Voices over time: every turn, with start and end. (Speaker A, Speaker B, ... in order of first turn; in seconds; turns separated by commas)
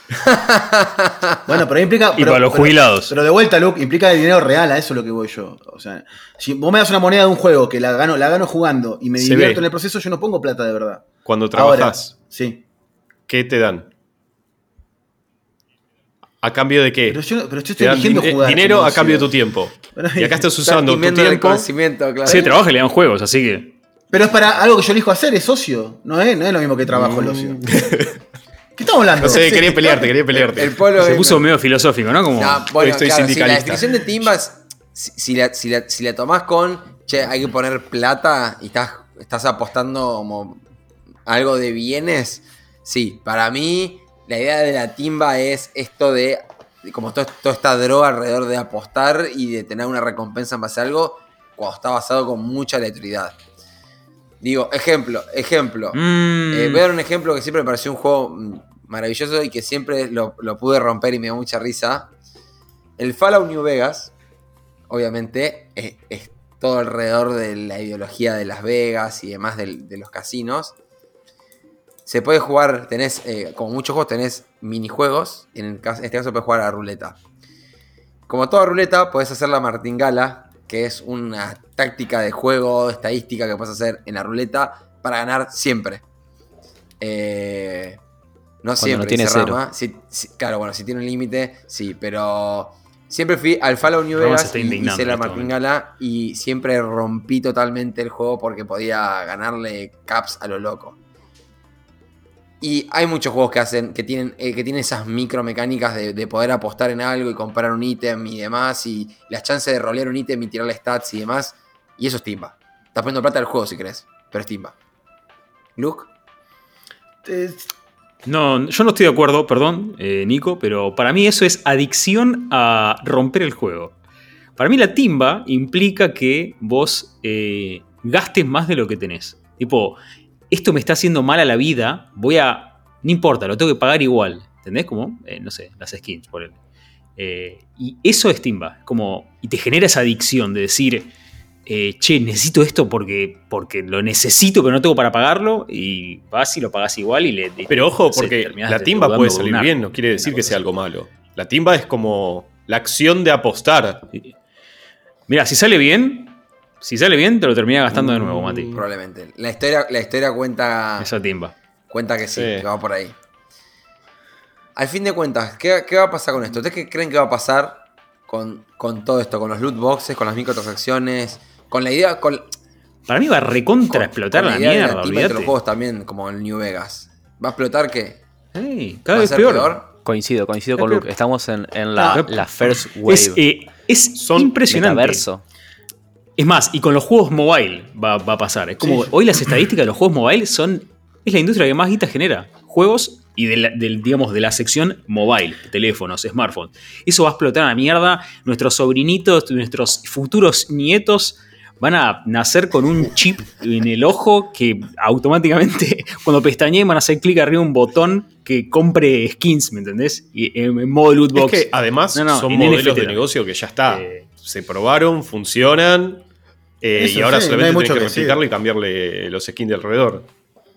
Speaker A: 0.2-1.4, Speaker B: 1.5-12.6, Speaker C: 2.1-3.1, Speaker D: 9.2-9.7, Speaker D: 11.2-12.1, Speaker D: 13.3-13.9, Speaker D: 16.4-17.2, Speaker B: 17.1-20.4, Speaker D: 17.8-21.7, Speaker A: 20.6-22.6, Speaker C: 22.2-23.8, Speaker B: 24.1-27.6, Speaker D: 26.9-28.2, Speaker B: 28.8-30.1, Speaker D: 29.2-30.8, Speaker A: 29.4-31.4, Speaker C: 31.0-32.7, Speaker A: 32.4-40.6, Speaker D: 32.8-34.0, Speaker A: 41.2-53.4, Speaker A: 54.4-62.1, Speaker C: 55.9-56.8, Speaker A: 63.0-64.1, Speaker A: 64.9-70.7, Speaker A: 72.0-77.2, Speaker A: 78.3-86.0, Speaker A: 87.0-88.0, Speaker A: 88.6-101.0, Speaker E: 88.8-89.6, Speaker C: 94.1-95.5, Speaker A: 102.6-114.7, Speaker A: 115.8-116.1, Speaker B: 117.2-117.7, Speaker C: 118.2-123.9, Speaker C: 124.5-130.0, Speaker C: 130.5-136.6, Speaker C: 137.2-141.1, Speaker C: 141.7-150.7, Speaker D: 147.7-154.1, Speaker C: 155.3-158.7, Speaker D: 157.9-158.8, Speaker A: 158.7-161.1, Speaker C: 161.0-161.5, Speaker A: 161.9-163.1, Speaker D: 162.3-162.7, Speaker A: 164.8-172.5, Speaker C: 173.1-175.5, Speaker A: 173.9-178.2, Speaker C: 178.5-179.8, Speaker A: 179.1-179.9, Speaker E: 180.0-183.4, Speaker C: 180.8-181.0, Speaker B: 181.9-182.2, Speaker C: 182.0-182.4, Speaker C: 183.1-185.2, Speaker D: 184.2-184.5, Speaker E: 184.6-185.4, Speaker C: 186.4-213.3, Speaker B: 188.8-189.1, Speaker D: 211.3-216.2, Speaker C: 213.8-214.3, Speaker D: 216.8-220.3, Speaker B: 216.9-218.4